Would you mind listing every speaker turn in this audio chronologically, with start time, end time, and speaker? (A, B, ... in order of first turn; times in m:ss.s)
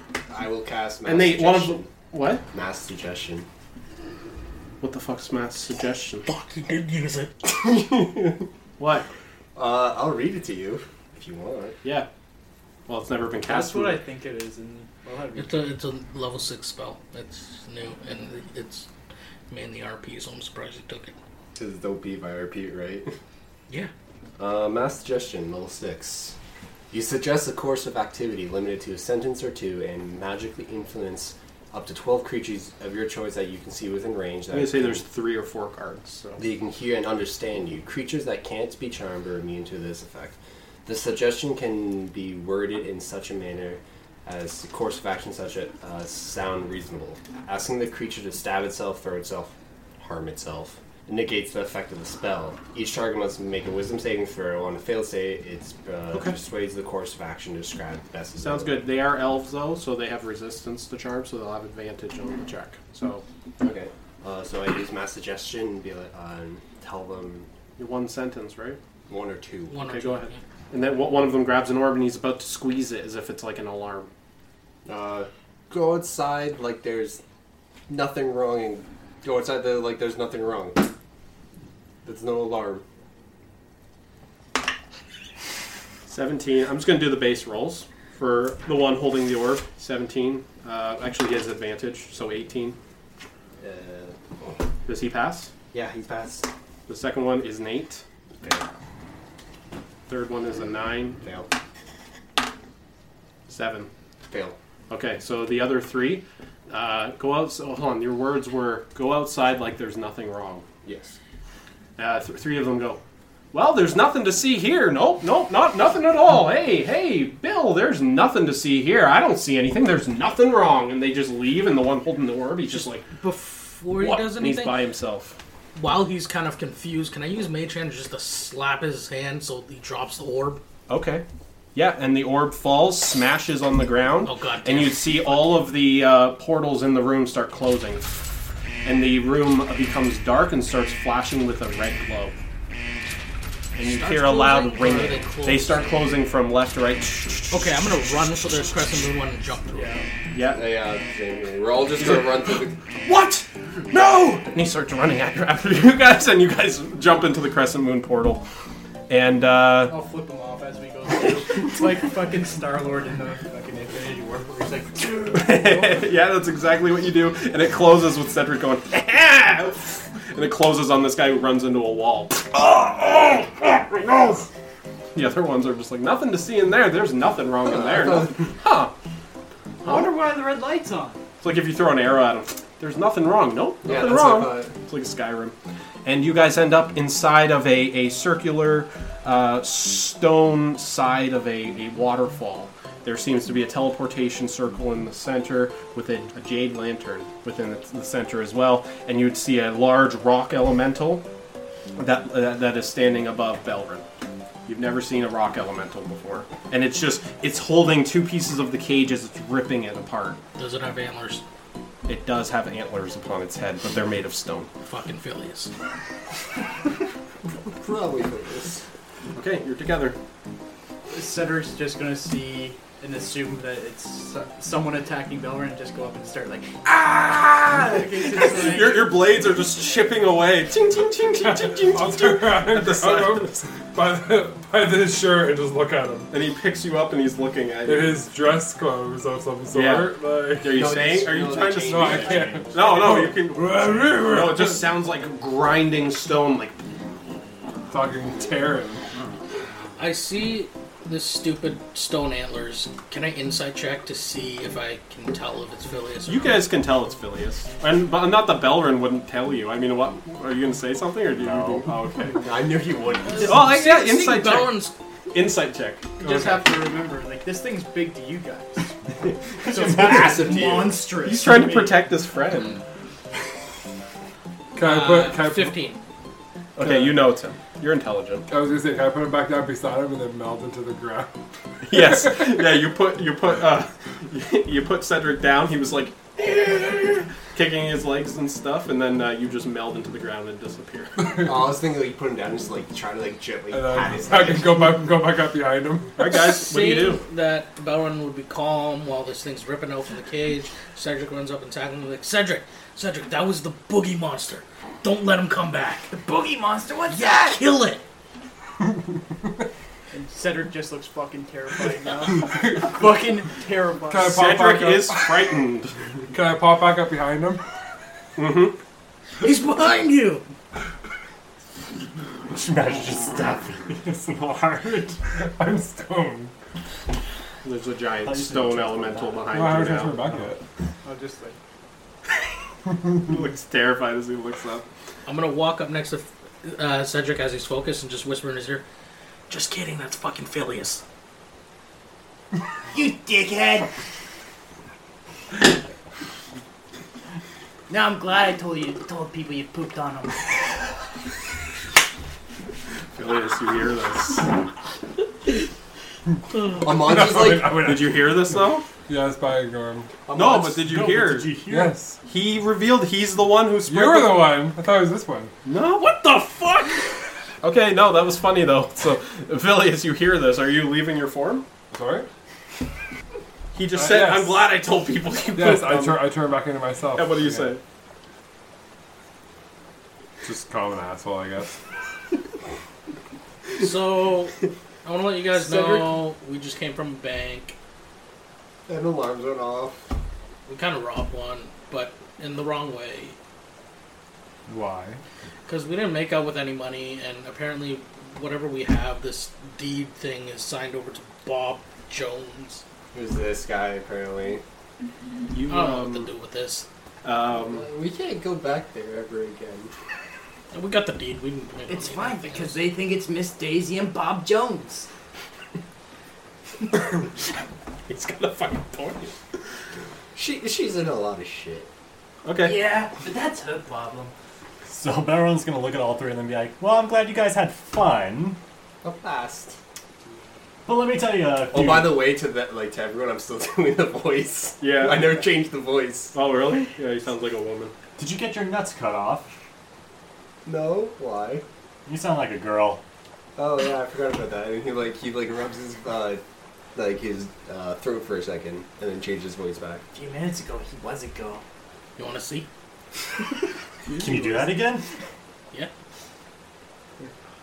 0:00.3-0:01.9 A
0:01.0-0:02.4 B
0:02.5-0:03.5 A
0:04.8-0:06.3 B
0:06.3-0:07.3 C
0:07.4-0:08.5 A
0:08.8-0:09.1 B
0:09.6-0:11.8 A
0:11.8-0:12.1 B
0:12.9-0:14.0 B
0:13.4-0:15.7 D
0:15.4-0:18.9 C
0:19.5-0:21.2 C
0:21.5-0:23.1 A
0:24.4-0:26.4 A
0:26.9-0:35.0 A
0:34.5-0:36.4 B
0:36.4-0:58.8 A
0:56.1-0:56.4 B
0:58.4-1:03.2 B
1:03.6-1:07.5 A
1:07.8-1:08.8 B
1:09.1-1:09.8 A
1:09.7-1:10.4 C
1:09.8-1:14.1 B
1:14.8-1:17.2 A
1:17.9-1:20.8 A
1:22.0-1:22.8 A
1:26.1-1:32.8 B
1:33.6-1:34.6 A
1:34.8-1:35.5 B
1:35.7-1:36.5 A
1:36.9-1:38.0 B
1:38.4-1:38.7 A
1:40.1-1:41.2 B
1:41.2-1:41.5 A
1:43.5-1:43.9 B
1:44.3-1:44.6 A
1:44.9-1:50.6 B
1:50.8-1:51.2 A
1:52.0-1:53.0 B
1:53.5-2:03.0 B
2:02.7-2:04.8 C
2:04.0-2:05.4 B
2:05.7-2:10.6 C
2:10.9-2:22.4 B
2:14.2-2:15.7 C
2:23.8-2:27.7 B
2:23.8-2:26.2 C
2:27.5-2:29.9 C
2:29.7-2:30.1 D
2:30.3-2:30.6 B
2:30.5-2:32.8 A
2:32.0-2:38.4 B
2:39.1-2:40.0 B
2:39.9-2:46.0 D
2:45.3-2:54.5 B
2:55.1-2:58.9 B
2:57.6-2:58.5 A
2:59.8-3:01.2 E
3:01.4-3:21.2 B
3:03.8-3:04.7 A
3:22.0-3:24.0 B
3:24.6-3:30.4 B
3:30.6-3:31.4 C
3:32.1-3:34.7 B
3:34.8-3:35.7 C
3:37.7-3:38.8 A
3:39.3-3:40.2 B
3:41.1-3:46.8 D
3:46.8-3:53.6 B
3:47.7-3:49.2 D
3:51.4-3:56.3 F
3:56.3-3:58.2 B
3:57.8-4:01.2 F
3:59.7-4:06.8 B
4:00.6-4:03.0 A
4:01.8-4:04.8 F
4:07.9-4:09.1 F
4:10.0-4:16.7 C
4:16.2-4:22.4 B
4:21.4-4:21.8 G
4:22.3-4:23.7 A
4:23.2-4:24.9 C
4:23.4-4:26.6 B
4:26.2-4:29.0 D
4:29.6-4:32.0 D
4:29.7-4:30.6 G
4:29.9-4:31.0 A
4:31.2-4:32.8 B
4:34.7-4:35.8 F
4:34.8-4:36.0 C
4:36.8-4:38.5 B
4:36.8-4:37.2 F
4:38.5-4:41.3 F
4:41.9-4:51.2 B
4:41.9-4:42.4 F
4:51.2-4:51.5 F
4:51.4-4:55.0 A
4:53.7-4:56.2 F
4:56.2-4:57.2 B
4:56.3-5:06.1 C
5:06.1-5:07.6 E
5:07.1-5:08.0 C
5:10.1-5:14.5 D
5:14.1-5:15.5 F
5:14.3-5:15.9 B
5:16.3-5:17.6 F
5:18.4-5:18.8 B
5:19.4-5:20.4 E
5:22.5-5:25.2 G
5:25.3-5:26.5 F
5:27.6-5:30.2 B
5:28.2-5:30.5 G
5:29.5-5:30.6 F
5:31.0-5:31.6 D
5:33.2-5:34.8 B
5:35.2-5:38.8 C
5:39.5-5:41.0 C
5:42.9-5:43.9 E
5:47.9-5:50.5 E
5:53.1-5:54.5 B
5:56.8-5:57.8 A
5:56.9-5:58.4 F
5:57.8-5:58.9 B
5:59.0-6:00.1 F
6:00.3-6:00.7 A
6:00.3-6:01.5 B
6:00.4-6:02.0 G
6:01.7-6:02.2 F
6:02.2-6:04.6 B
6:03.9-6:05.5 F
6:05.6-6:06.6 B
6:06.0-6:07.2 C
6:07.6-6:11.6 B
6:11.9-6:12.3 F
6:13.7-6:16.3 B
6:13.9-6:14.6 F
6:15.5-6:17.7 F
6:17.1-6:17.8 B
6:20.4-6:21.7 F
6:23.8-6:27.8 C
6:25.5-6:26.1 A
6:28.9-6:30.0 A
6:30.7-6:33.4 C
6:34.7-6:35.2 F
6:35.6-6:42.8 C
6:43.1-6:44.6 A
6:45.5-6:46.3 B
6:45.7-6:46.8 C
6:47.2-6:47.8 B
6:47.5-6:49.9 A
6:50.7-6:52.8 C
6:51.9-6:55.1 E
6:58.1-6:59.3 B
7:00.3-7:01.9 A
7:02.4-7:02.8 B
7:02.6-7:04.3 E
7:04.8-7:08.6 G
7:09.0-7:09.8 A
7:10.8-7:12.2 G
7:11.7-7:16.4 A
7:14.8-7:15.4 B
7:16.3-7:17.9 B
7:18.2-7:19.5 G
7:20.6-7:21.6 A
7:22.0-7:23.0 G
7:23.6-7:26.4 A
7:26.9-7:30.0 A
7:30.1-7:31.6 E
7:32.2-7:32.7 C
7:34.2-7:35.0 G